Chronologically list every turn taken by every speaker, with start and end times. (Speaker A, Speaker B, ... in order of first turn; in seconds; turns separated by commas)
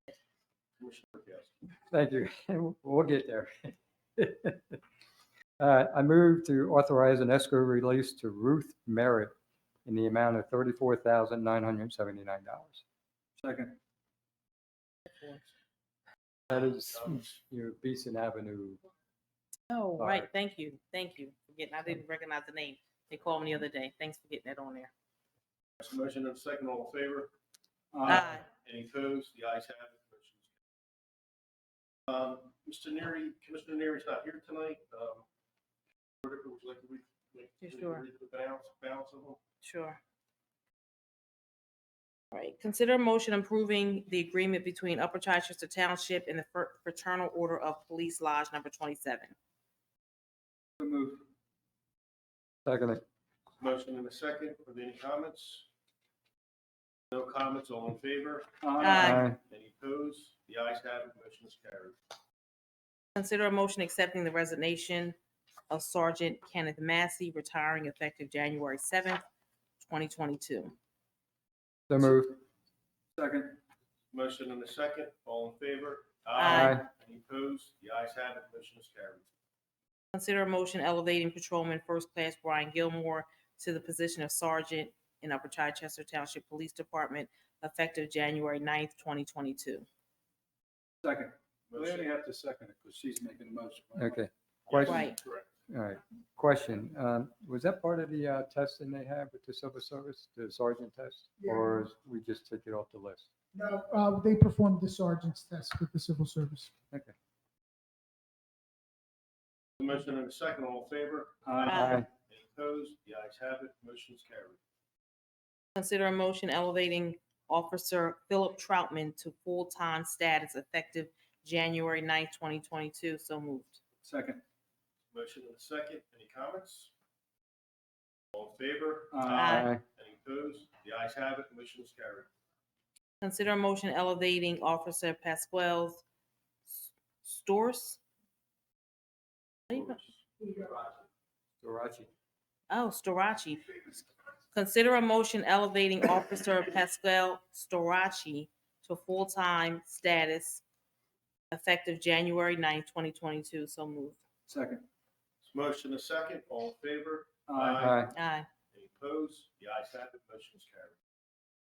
Speaker A: 0.8-1.7, Speaker B: 1.9-4.8, Speaker B: 5.6-9.3, Speaker B: 9.9-12.8, Speaker C: 13.4-13.8, Speaker D: 15.1-15.4, Speaker A: 16.5-17.3, Speaker B: 16.5-18.8, Speaker D: 19.7-24.9, Speaker B: 20.0-20.3, Speaker A: 25.8-27.3, Speaker C: 27.9-28.4, Speaker A: 28.0-30.5, Speaker D: 28.1-28.4, Speaker A: 32.1-35.2, Speaker A: 36.2-39.4, Speaker D: 37.6-38.0, Speaker D: 39.6-40.0, Speaker D: 42.3-49.4, Speaker C: 50.8-51.2, Speaker B: 52.7-53.0, Speaker A: 53.6-55.7, Speaker A: 57.1-62.0, Speaker C: 58.6-59.1, Speaker D: 58.8-59.2, Speaker B: 59.0-59.4, Speaker D: 63.2-65.2, Speaker D: 65.7-69.2, Speaker D: 69.8-70.8, Speaker B: 71.9-72.4, Speaker C: 73.2-73.6, Speaker A: 74.1-79.2, Speaker D: 76.4-76.9, Speaker B: 76.5-76.8, Speaker D: 80.1-89.9, Speaker C: 91.0-95.3, Speaker A: 91.7-92.1, Speaker B: 94.0-95.1, Speaker A: 94.7-95.4, Speaker D: 94.8-95.2, Speaker B: 95.7-103.3, Speaker E: 101.4-101.8, Speaker E: 103.5-106.7, Speaker A: 109.8-114.6, Speaker C: 111.5-111.8, Speaker D: 111.7-112.0, Speaker B: 111.7-112.1, Speaker D: 115.8-123.8, Speaker C: 124.0-124.4, Speaker A: 125.1-126.9, Speaker A: 128.3-132.3, Speaker C: 129.1-129.5, Speaker D: 129.3-129.7, Speaker B: 129.4-129.8, Speaker D: 133.2-136.0, Speaker D: 136.7-138.0, Speaker D: 139.7-140.0, Speaker A: 139.7-140.1, Speaker E: 140.4-140.9, Speaker B: 141.6-142.1, Speaker D: 142.7-143.8, Speaker D: 144.5-150.6, Speaker D: 151.5-154.2, Speaker C: 154.5-154.9, Speaker A: 155.4-158.1, Speaker C: 157.5-157.9, Speaker B: 157.8-158.1, Speaker D: 158.1-158.5, Speaker A: 158.7-161.0